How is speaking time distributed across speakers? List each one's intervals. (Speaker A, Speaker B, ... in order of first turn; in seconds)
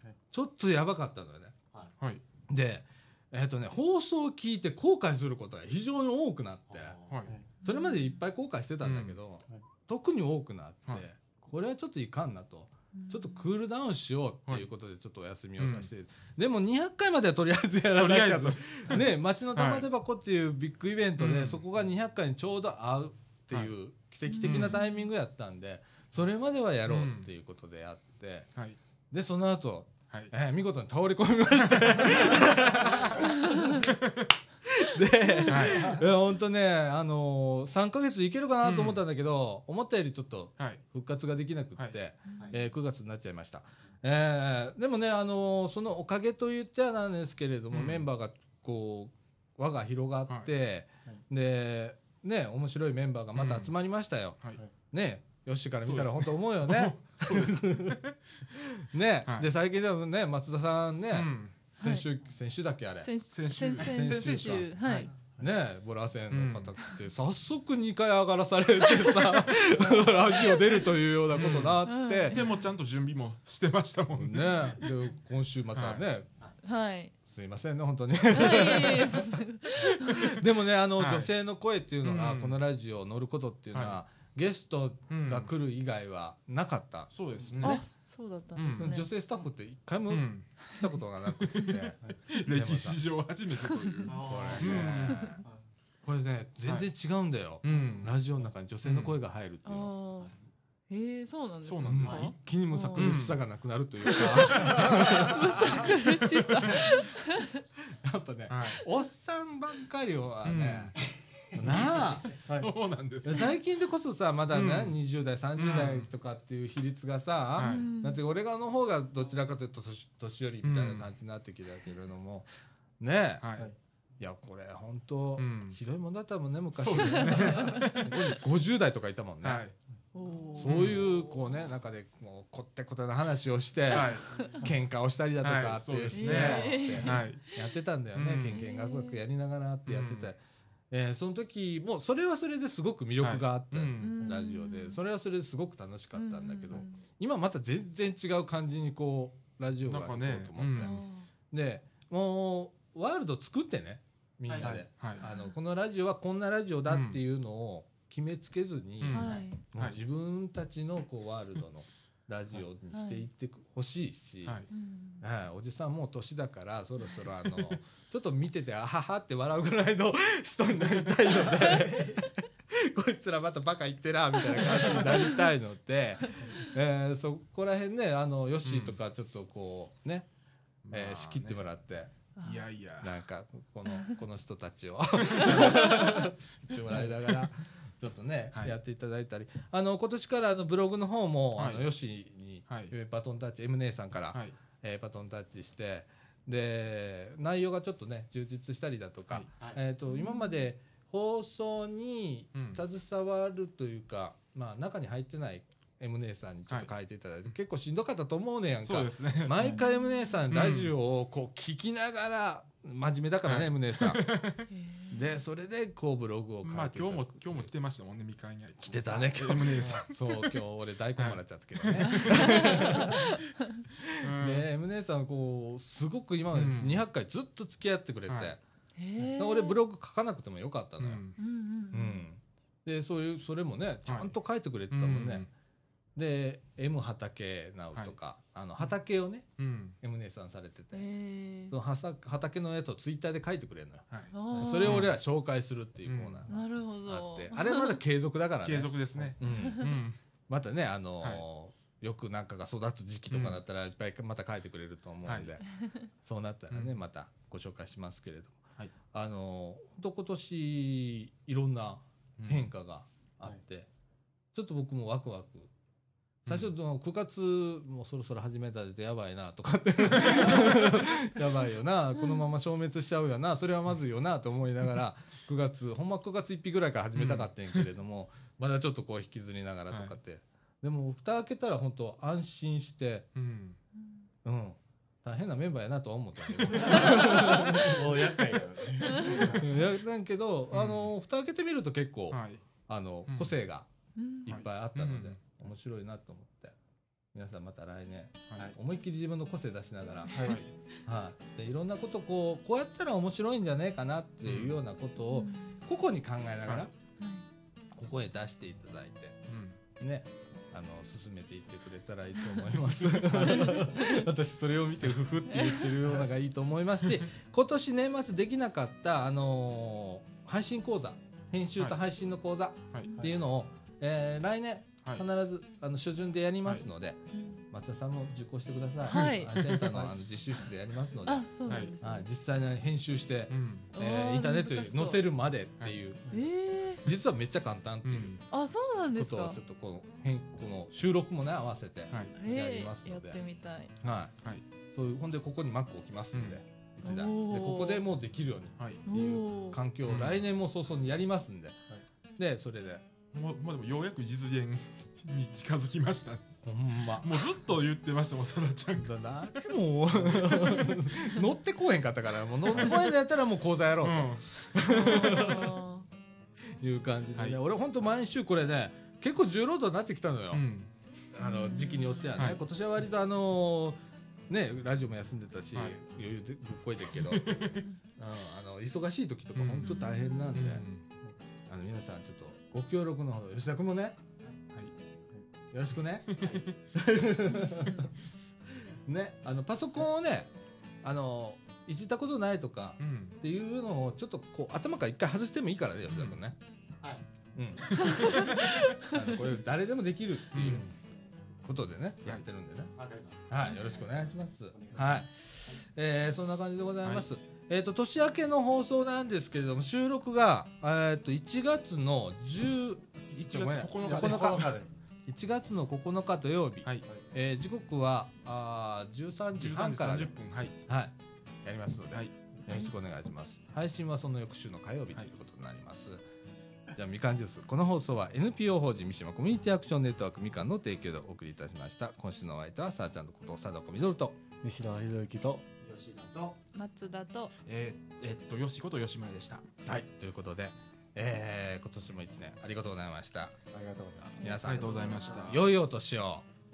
Speaker A: 0.3-1.6, 2.5-7.0, 7.6-28.5, 29.1-33.7, 34.7-54.4, 54.9-58.0, 58.5-63.1, 63.7-72.4, 74.1-76.3, 77.2-87.8, 88.8-93.0, 94.2-95.4, 96.0-99.9, 101.9-106.9, 108.0-110.9, 111.5-112.3, 113.2-122.5, 123.0-123.5, 124.2-129.6, 130.6-140.4, 140.9-151.0, 151.5-164.7, 165.2-180.3, 180.9-182.1, 183.0-214.4, 215.1-217.7, 218.8-223.2, 224.0-228.6, 229.2-231.2, 231.9-235.5, 236.2-241.1, 241.7-249.9, 250.5-255.7, 256.2-258.6, 259.1-263.9, 264.5-265.7, 266.5-283.3, 284.4-288.6, 289.1-293.9, 294.4-296.8, 297.3-306.9, 307.9-309.4, 310.0-336.4, 337.0-338.4, 339.1-343.4, 344.0-344.3, 344.9-351.8, 352.4-353.1, 356.6-357.5, 359.0-365.8, 366.8-370.7, 371.3-380.9, 381.7-384.2, 385.7-388.1, 389.1-390.5, 391.0-396.6, 397.6-400.9, 401.6-402.9, 403.5-414.7, 415.3-420.3, 420.9-426.2, 426.9-434.4, 439.9-443.6, 444.4-446.4
Speaker B: 6.7-7.4, 94.1-95.6, 154.5-154.8, 403.0-404.1, 404.7-405.8, 435.8-436.6
Speaker C: 7.6-8.1, 13.0-13.4, 24.3-25.0, 42.3-42.6, 61.8-62.1, 63.0-65.1, 71.8-72.6, 76.6-77.1, 78.3-80.3, 87.6-89.1, 99.7-100.3, 100.9-103.2, 104.1-107.6, 117.6-118.2, 127.3-127.8, 130.1-130.9, 136.1-137.4, 138.5-139.2, 144.0-145.0, 146.2-147.0, 150.8-151.3, 155.2-155.5, 159.1-159.7, 162.9-163.2, 164.7-165.2, 185.6-186.1, 200.1-200.6, 209.7-210.4, 214.7-215.3, 222.2-223.4, 229.0-229.8, 231.4-232.2, 240.9-241.8, 244.3-245.0, 246.5-248.0, 249.6-249.8, 294.2-294.5, 305.3-305.8, 307.2-307.5, 313.3-314.2, 315.5-315.9, 327.3-327.6, 329.1-329.9, 331.3-332.3, 333.9-335.2, 336.3-337.0, 338.5-339.6, 342.4-343.9, 347.0-348.0, 349.1-349.8, 364.8-366.1, 371.4-372.2, 379.9-380.8, 387.6-388.1, 398.0-399.2, 436.7-437.5
Speaker D: 8.8-9.2, 15.6-15.9, 17.9-19.9, 21.2-21.6, 24.4-24.8, 26.9-27.3, 31.7-32.4, 33.9-34.3, 35.5-36.0, 38.6-39.0, 40.6-40.8, 47.7-48.1, 53.4-53.7, 55.8-58.2, 61.1-61.6, 63.3-65.1, 66.3-66.7, 71.3-74.9, 75.8-76.0, 81.0-81.3, 82.0-82.6, 83.7-84.0, 85.1-85.5, 87.1-87.9, 88.6-88.9, 90.1-90.5, 91.4-95.4, 96.7-96.9, 97.6-98.2, 98.8-99.2, 101.6-102.4, 103.0-103.4, 104.2-104.9, 108.5-108.8, 110.5-111.0, 111.6-113.5, 114.5-115.0, 115.6-116.1, 117.6-117.9, 120.6-121.1, 123.4-123.7, 125.4-125.8, 126.8-128.3, 129.4-129.8, 130.6-131.1, 133.9-134.3, 135.4-137.4, 138.2-138.6, 139.9-140.3, 143.2-144.4, 149.9-150.9, 155.0-155.2, 156.9-157.2, 159.0-160.0, 178.7-179.0, 180.9-181.6, 182.4-183.2, 185.3-185.8, 186.8-187.5, 191.6-191.9, 192.7-192.9, 194.3-194.6, 202.6-202.8, 208.8-209.6, 210.5-210.9, 213.4-214.6, 216.6-220.6, 221.2-223.3, 224.1-224.7, 226.5-227.0, 228.3-228.6, 231.0-231.4, 234.1-234.3, 234.9-235.5, 239.6-240.0, 244.8-245.2, 246.1-246.5, 248.6-250.2, 253.3-253.6, 255.2-255.6, 262.4-262.7, 266.5-266.7, 270.1-271.0, 277.1-277.9, 279.9-280.1, 283.4-283.8, 290.7-291.1, 292.3-292.6, 293.3-293.5, 294.5-295.4, 300.4-300.7, 304.4-304.8, 306.6-306.9, 309.5-309.8, 329.1-329.6, 331.7-331.9, 333.5-333.9, 338.1-338.4, 342.1-342.4, 346.3-346.6, 350.1-350.4, 353.3-356.4, 357.2-359.1, 362.7-363.0, 364.0-364.6, 370.5-370.9, 375.8-376.0, 377.1-377.8, 379.6-381.0, 386.3-386.8, 393.0-393.4, 398.2-398.6, 400.5-400.9, 413.3-414.8, 419.6-420.8, 437.7-439.6, 444.6-445.7
Speaker E: 112.5-112.7, 154.6-154.9, 286.8-289.8, 300.3-300.6, 414.0-415.0, 434.6-435.6, 443.7-445.5